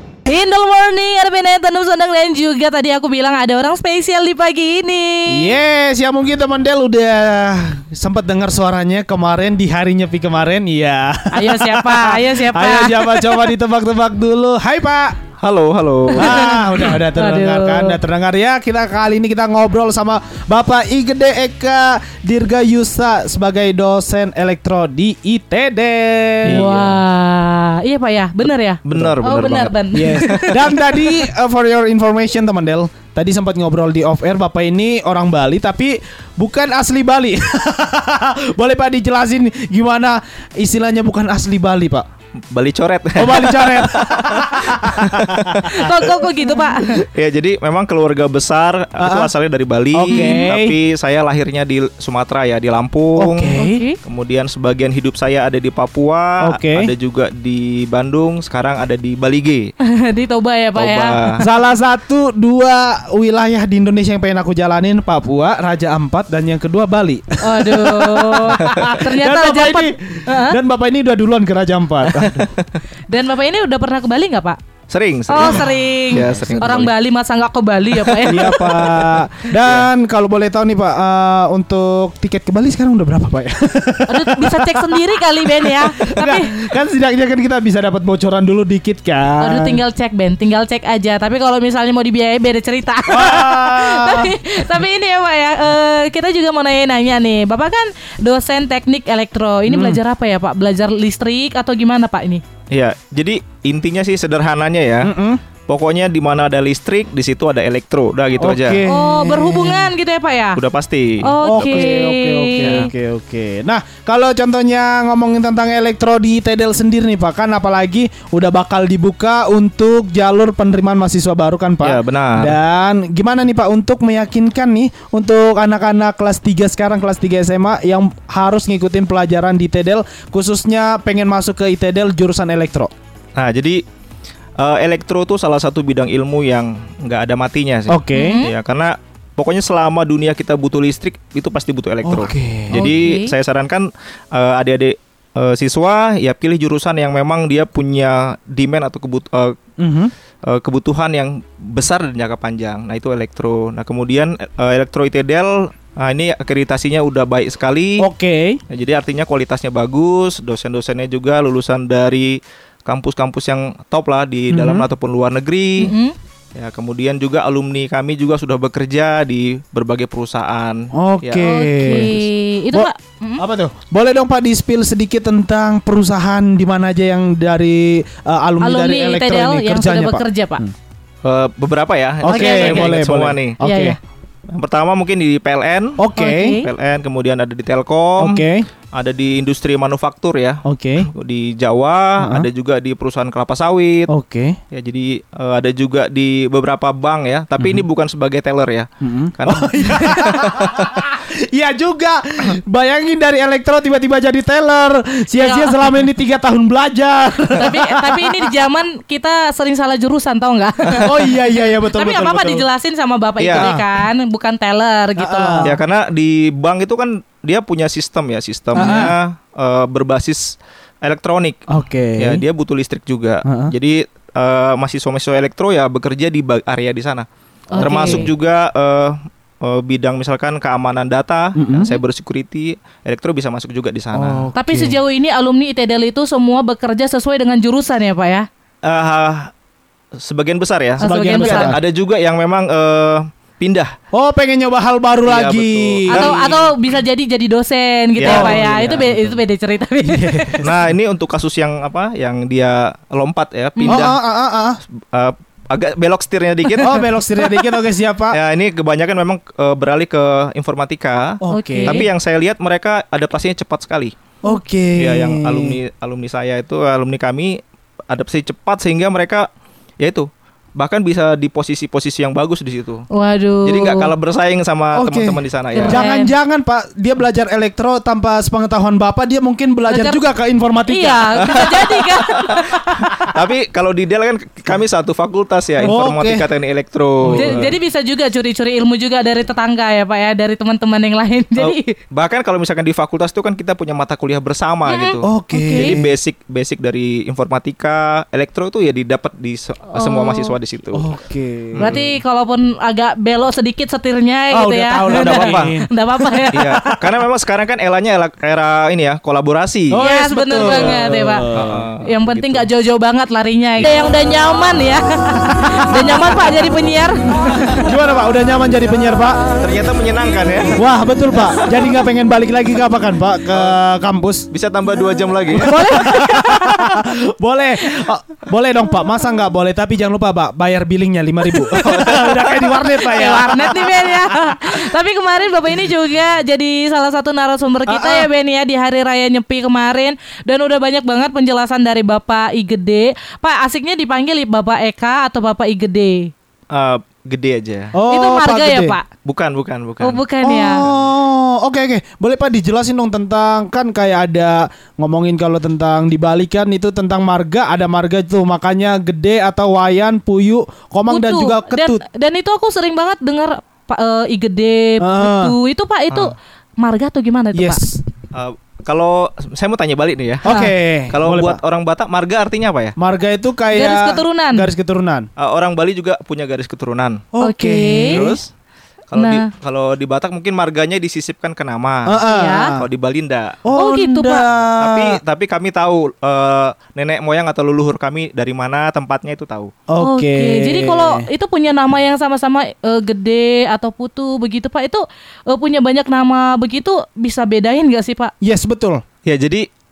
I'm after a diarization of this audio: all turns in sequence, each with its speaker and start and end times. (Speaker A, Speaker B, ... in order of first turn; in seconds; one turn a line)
Speaker A: 0.3-5.5
Speaker B: 5.3-15.2
Speaker A: 11.3-13.4
Speaker C: 15.4-16.6
Speaker A: 16.2-18.0
Speaker B: 16.2-26.7
Speaker C: 26.5-27.0
Speaker A: 26.5-30.6
Speaker C: 28.9-30.5
Speaker B: 28.9-29.2
Speaker B: 29.9-42.1
Speaker C: 42.5-45.9
Speaker B: 43.2-45.7
Speaker A: 45.6-47.0
Speaker C: 46.8-59.7
Speaker B: 49.0-49.3
Speaker B: 49.9-50.8
Speaker A: 50.1-50.5
Speaker B: 53.2-53.8
Speaker A: 53.6-54.0
Speaker B: 56.4-56.9
Speaker A: 60.0-61.4
Speaker C: 60.8-61.4
Speaker B: 61.4-72.5
Speaker A: 67.4-70.6
Speaker C: 72.1-72.8
Speaker A: 73.1-74.6
Speaker C: 74.9-76.9
Speaker A: 75.3-79.1
Speaker B: 75.4-76.9
Speaker C: 78.0-79.9
Speaker B: 78.2-89.8
Speaker A: 84.1-86.7
Speaker A: 89.4-102.4
Speaker B: 93.1-94.4
Speaker B: 99.7-100.0
Speaker C: 102.7-105.1
Speaker B: 105.0-105.4
Speaker C: 105.7-108.8
Speaker B: 108.4-109.9
Speaker A: 108.9-110.6
Speaker C: 110.6-112.0
Speaker A: 111.2-112.9
Speaker B: 111.4-132.9
Speaker C: 112.6-112.9
Speaker C: 121.8-122.6
Speaker C: 133.4-133.8
Speaker C: 134.6-149.6
Speaker B: 137.9-138.4
Speaker A: 138.1-138.6
Speaker B: 142.0-142.9
Speaker A: 142.7-143.4
Speaker B: 149.8-150.1
Speaker C: 150.5-158.1
Speaker B: 158.0-158.6
Speaker C: 158.7-165.9
Speaker B: 164.5-164.9
Speaker A: 165.8-166.2
Speaker C: 166.6-172.3
Speaker B: 170.9-172.1
Speaker A: 171.4-173.4
Speaker B: 172.7-180.7
Speaker A: 178.6-180.6
Speaker C: 181.2-183.6
Speaker B: 182.2-184.0
Speaker A: 182.2-182.9
Speaker A: 183.6-184.0
Speaker C: 184.5-186.1
Speaker B: 186.0-186.6
Speaker A: 186.2-186.7
Speaker C: 186.6-194.1
Speaker B: 188.2-188.7
Speaker B: 190.7-191.1
Speaker B: 192.2-192.5
Speaker B: 194.1-194.6
Speaker C: 194.7-200.9
Speaker B: 197.6-197.9
Speaker B: 199.0-208.5
Speaker A: 205.4-205.8
Speaker A: 207.6-215.7
Speaker B: 211.0-212.7
Speaker C: 213.4-213.8
Speaker B: 213.6-213.8
Speaker B: 215.2-215.8
Speaker C: 215.6-221.6
Speaker A: 218.8-219.1
Speaker B: 218.8-219.1
Speaker B: 221.7-222.4
Speaker C: 222.2-234.5
Speaker B: 223.4-223.7
Speaker A: 227.7-228.3
Speaker B: 227.8-228.3
Speaker B: 231.6-232.0
Speaker B: 234.1-235.0
Speaker A: 234.6-238.5
Speaker C: 238.8-239.5
Speaker C: 240.2-243.9
Speaker A: 241.0-241.8
Speaker B: 241.0-241.8
Speaker B: 244.1-246.4
Speaker C: 245.2-246.8
Speaker A: 246.1-250.7
Speaker C: 248.2-249.2
Speaker B: 248.2-249.3
Speaker B: 250.1-250.7
Speaker C: 250.6-254.2
Speaker A: 253.8-254.1
Speaker B: 253.9-254.8
Speaker C: 255.1-257.6
Speaker B: 256.8-258.4
Speaker C: 258.3-264.2
Speaker B: 261.4-262.1
Speaker A: 261.5-262.1
Speaker B: 264.4-265.8
Speaker C: 265.0-267.6
Speaker C: 268.1-269.5
Speaker C: 270.0-273.1
Speaker A: 273.1-274.1
Speaker C: 273.6-276.0
Speaker B: 274.9-281.8
Speaker A: 275.7-276.3
Speaker A: 279.9-280.2
Speaker A: 280.9-283.1
Speaker C: 281.6-282.4
Speaker B: 283.0-283.3
Speaker C: 283.2-287.8
Speaker B: 285.8-286.5
Speaker B: 287.2-287.7
Speaker A: 287.3-291.9
Speaker C: 291.6-301.1
Speaker A: 294.9-296.0
Speaker B: 295.2-296.1
Speaker A: 299.9-300.6
Speaker B: 300.9-302.0
Speaker C: 301.8-302.1
Speaker A: 301.8-306.7
Speaker B: 304.5-307.1
Speaker C: 305.1-305.7
Speaker C: 306.5-310.0
Speaker B: 309.9-311.9
Speaker A: 309.9-311.5
Speaker C: 310.6-311.0
Speaker C: 311.5-312.7
Speaker A: 312.0-317.9
Speaker B: 317.8-319.5
Speaker C: 319.6-320.8
Speaker B: 320.7-324.5
Speaker C: 323.5-323.8
Speaker C: 324.5-325.9
Speaker B: 325.5-334.7
Speaker A: 325.5-327.0
Speaker A: 331.4-346.3
Speaker B: 337.9-338.3
Speaker C: 346.7-347.9
Speaker B: 347.9-349.0
Speaker A: 348.1-349.1
Speaker C: 349.2-351.1
Speaker A: 350.0-350.9
Speaker B: 350.4-362.0
Speaker A: 361.1-367.8
Speaker B: 365.0-365.6
Speaker B: 367.5-368.0
Speaker C: 368.3-370.5
Speaker B: 370.4-371.6
Speaker A: 370.5-370.7
Speaker C: 371.1-373.0
Speaker B: 373.0-375.3
Speaker A: 373.7-374.7
Speaker C: 375.4-377.3
Speaker B: 377.3-378.4
Speaker A: 377.4-378.2
Speaker C: 378.1-378.5
Speaker C: 379.1-382.2
Speaker A: 379.1-379.5
Speaker B: 382.1-382.9
Speaker A: 382.3-382.8
Speaker C: 382.8-383.6
Speaker B: 383.6-385.2
Speaker A: 383.8-384.5
Speaker C: 384.5-389.7
Speaker B: 389.9-391.3
Speaker A: 390.0-398.3
Speaker B: 398.4-399.0
Speaker C: 399.2-399.7